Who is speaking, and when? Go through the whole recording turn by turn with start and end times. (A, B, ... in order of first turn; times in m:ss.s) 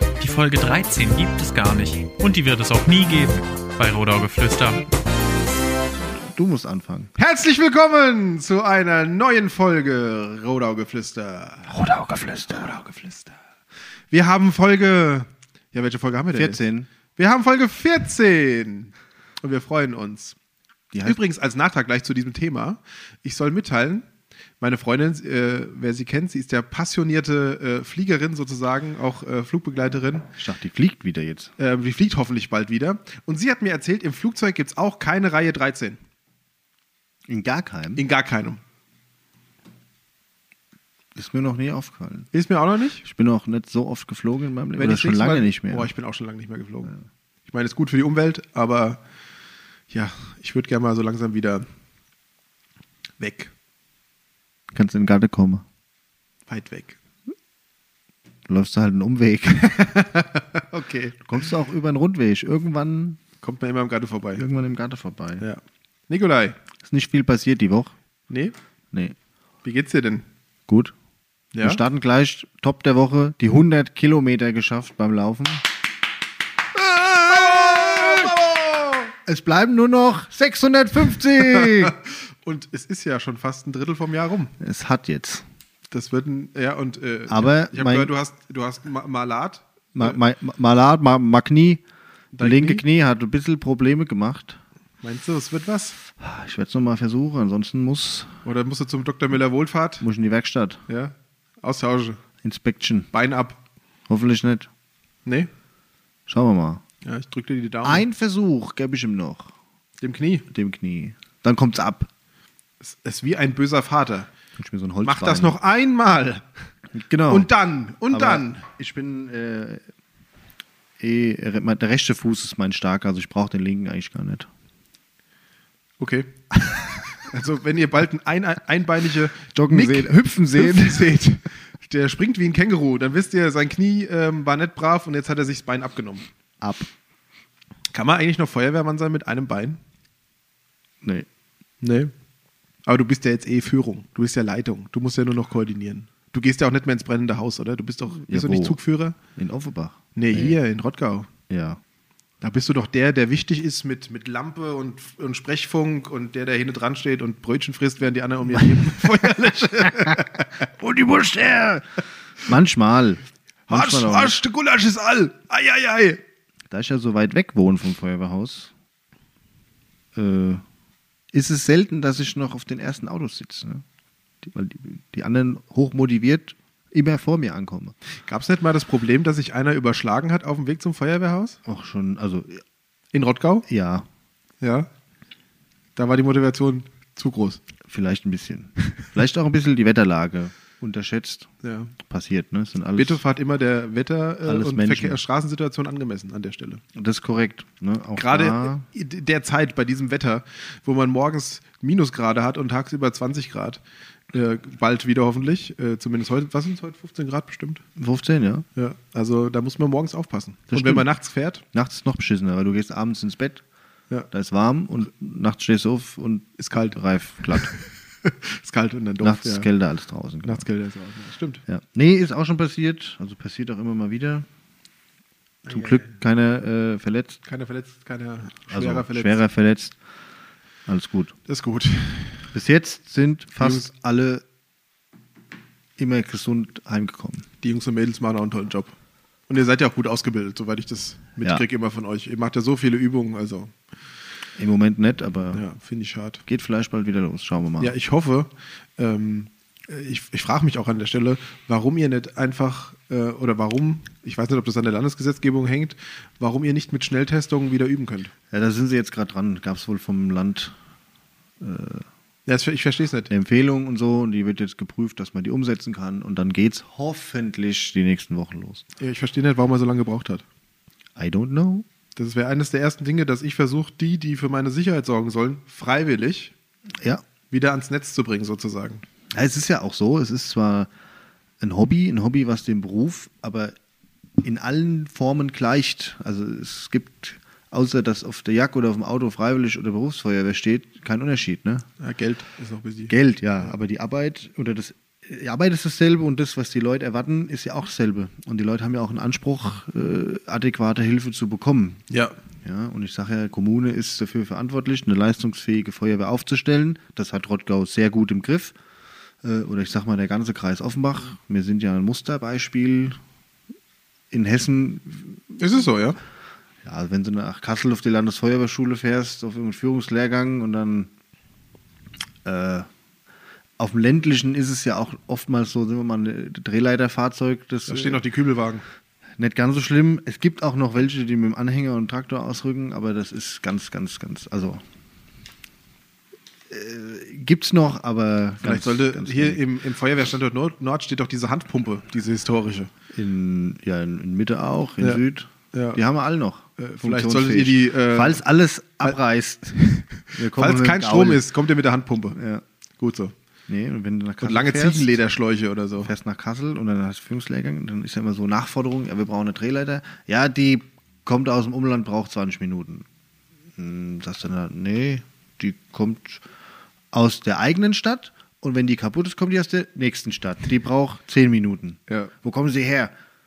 0:00.2-0:04.8 A
0:06.2-0:07.1 B
0:07.2-0:11.7 C
0:11.7-0:12.8 B
0:12.8-0:13.3 C
0:14.1-0:16.6 C
0:16.3-0:16.9 B
0:17.2-0:20.4 C
0:20.9-0:21.2 B
0:21.0-0:24.0 C
0:24.6-0:30.3 C
0:30.4-0:31.5 B
0:31.6-0:36.0 C
0:37.3-0:38.0 B
0:38.0-0:38.6 C
0:41.1-0:42.3 B
0:42.3-0:43.0 C
0:43.0-0:45.9 B
0:44.8-0:46.9 C
0:47.5-0:49.0 C
0:49.9-0:51.6 C
0:53.2-0:53.5 C
0:54.7-0:55.6 B
0:56.5-0:57.0 C
0:58.5-0:59.9 B
0:59.6-1:01.3 C
1:01.2-1:03.2 B
1:03.4-1:04.4 C
1:04.4-1:05.4 B
1:05.4-1:06.6 C
1:06.8-1:07.9 B
1:08.3-1:08.5 C
1:09.6-1:10.2 C
1:10.7-1:10.9 B
1:11.5-1:11.8 C
1:11.6-1:15.6 B
1:16.7-1:18.3 B
1:17.2-1:19.1 C
1:19.2-1:22.0 B
1:21.3-1:24.5 C
1:24.6-1:25.4 B
1:25.9-1:30.2 C
1:27.3-1:28.1 B
1:29.9-1:31.8 B
1:32.3-1:32.8 C
1:32.4-1:34.6 B
1:35.0-1:36.0 C
1:36.2-1:38.4 B
1:38.4-1:40.0 C
1:40.0-1:40.8 B
1:40.9-1:42.2 C
1:42.4-1:43.1 B
1:43.1-1:43.6 C
1:44.1-1:44.7 B
1:46.3-1:46.8 B
1:47.0-1:48.0 C
1:47.8-1:49.5 B
1:50.0-1:50.5 C
1:50.5-1:52.1 B
1:52.8-1:54.3 C
1:54.6-1:55.6 B
1:55.0-1:56.4 C
1:56.9-1:57.5 B
1:57.3-1:58.6 C
1:58.0-1:59.8 B
2:01.0-2:04.5 B
2:06.0-2:16.2 C
2:09.5-2:11.2 B
2:16.6-2:16.9 B
2:17.9-2:19.8 C
2:21.8-2:22.1 C
2:22.8-2:29.2 C
2:28.2-2:28.8 B
2:29.4-2:30.6 B
2:30.1-2:31.3 C
2:31.5-2:31.8 B
2:32.4-2:40.5 C
2:38.6-2:39.2 B
2:40.0-2:41.9 B
2:42.4-2:44.4 B
2:43.7-2:46.2 C
2:46.7-2:48.7 B
2:50.1-2:50.6 B
2:51.3-2:53.8 B
2:54.4-2:57.9 B
2:58.3-3:01.6 C
3:01.6-3:02.6 B
3:03.1-3:03.6 C
3:03.7-3:04.1 B
3:04.6-3:04.9 C
3:06.0-3:07.6 C
3:07.9-3:13.2 B
3:11.6-3:11.9 C
3:13.0-3:16.8 C
3:14.4-3:15.2 B
3:16.9-3:18.8 B
3:18.2-3:23.8 C
3:24.3-3:27.8 C
3:28.0-3:28.6 B
3:28.8-3:31.6 C
3:30.7-3:31.1 B
3:31.7-3:33.6 B
3:34.3-3:37.7 B
3:36.6-3:37.0 C
3:38.2-3:39.7 C
3:39.2-3:40.6 B
3:40.4-3:41.6 C
3:41.7-3:44.5 B
3:45.6-3:47.4 B
3:45.7-3:46.1 C
3:47.4-3:49.4 C
3:48.7-3:50.0 B
3:50.9-3:51.3 B
3:51.5-3:52.5 C
3:52.5-3:54.4 B
3:53.6-3:53.9 C
3:56.0-3:57.4 B
3:57.6-3:58.9 C
3:59.5-4:03.7 C
4:04.6-4:05.6 B
4:05.5-4:06.4 C
4:06.4-4:07.9 B
4:07.8-4:18.3 C
4:18.5-4:20.7 B
4:21.6-4:22.1 B
4:22.5-4:23.3 C
4:23.3-4:28.8 B
4:29.0-4:30.4 C
4:31.2-4:31.8 B
4:32.2-4:36.5 C
4:37.0-4:37.2 B
4:37.5-4:39.0 C
4:39.3-4:40.9 B
4:41.6-4:43.7 B
4:44.4-4:51.8 B
4:52.0-4:53.1 C
4:53.1-5:02.0 B
5:02.1-5:02.3 C
5:02.6-5:08.7 B
5:09.4-5:13.2 B
5:14.3-5:15.6 B
5:15.6-5:16.2 C
5:16.8-5:21.1 B
5:22.4-5:22.9 B
5:23.8-5:28.2 B
5:27.9-5:28.8 C
5:29.4-5:34.8 B
5:36.7-5:39.6 B
5:38.6-5:42.9 C
5:43.1-5:49.8 B
5:45.7-5:46.0 C
5:46.8-5:48.4 C
5:49.8-5:52.4 C
5:50.3-5:51.4 B
5:52.3-5:52.6 B
5:53.0-5:53.3 C
5:53.7-5:55.1 B
5:54.4-5:56.1 C
5:56.0-6:03.0 B
6:03.8-6:06.4 B
6:07.1-6:13.1 B